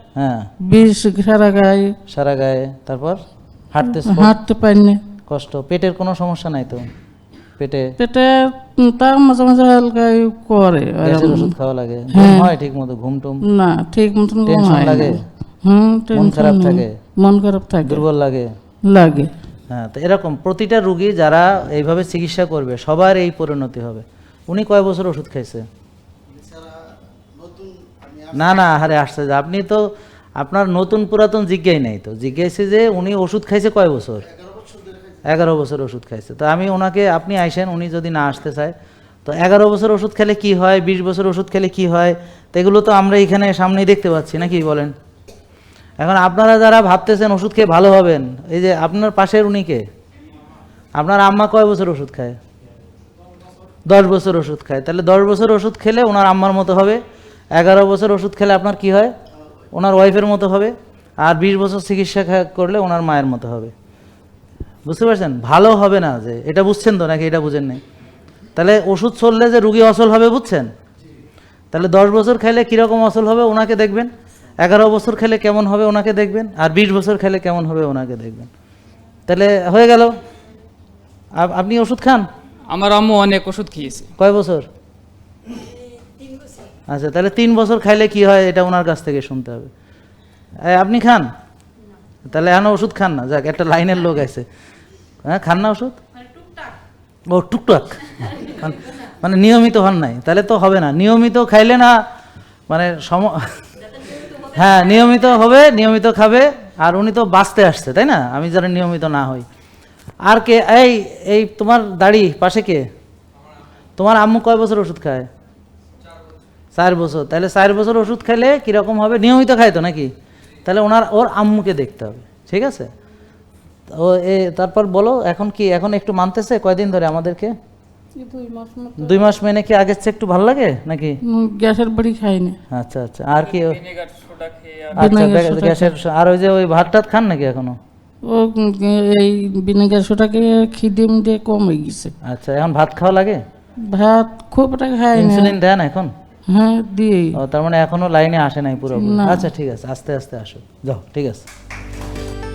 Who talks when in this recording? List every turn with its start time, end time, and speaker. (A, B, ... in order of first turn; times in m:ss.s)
0:00.2-0:00.5 A
0:00.6-0:01.9 B
0:02.1-0:03.2 A
0:03.7-0:04.3 A
0:03.8-0:05.0 B
0:05.3-0:06.9 A
0:07.6-0:07.9 A
0:08.0-0:11.5 B
0:11.0-0:13.4 A
0:12.1-0:12.5 B
0:13.4-0:18.0 B
0:14.4-0:15.2 A
0:16.1-0:16.9 A
0:17.8-0:18.5 A
0:18.9-0:19.3 B
0:19.7-0:25.6 A
0:28.3-0:34.3 A
0:35.3-0:38.7 A
0:39.2-0:44.9 A
0:46.0-0:49.8 A
0:51.0-0:52.4 A
0:53.9-0:57.0 A
0:57.5-0:59.1 A
0:59.7-1:03.7 A
1:04.9-1:07.8 A
1:08.6-1:10.7 A
1:11.7-1:14.1 A
1:14.6-1:18.5 A
1:19.3-1:20.1 A
1:21.4-1:22.2 A
1:22.7-1:24.1 C
1:24.2-1:24.6 A
1:26.9-1:29.7 A
1:30.6-1:31.3 A
1:32.2-1:34.4 A
1:35.2-1:36.0 A
1:37.3-1:42.0 A
1:42.7-1:43.4 A
1:44.5-1:49.4 A
1:50.2-1:52.8 A
1:54.0-1:55.3 A
1:56.7-2:00.1 A
2:00.6-2:02.9 A
2:03.9-2:07.5 A
2:08.2-2:09.3 B
2:09.0-2:11.2 A
2:11.2-2:12.6 B
2:12.7-2:13.8 A
2:13.4-2:15.2 C
2:15.0-2:17.8 A
2:15.0-2:15.9 B
2:18.3-2:22.1 B
2:22.2-2:23.4 A
2:23.9-2:25.5 B
2:25.1-2:26.1 A
2:26.5-2:27.4 B
2:27.3-2:31.5 A
2:29.0-2:29.5 B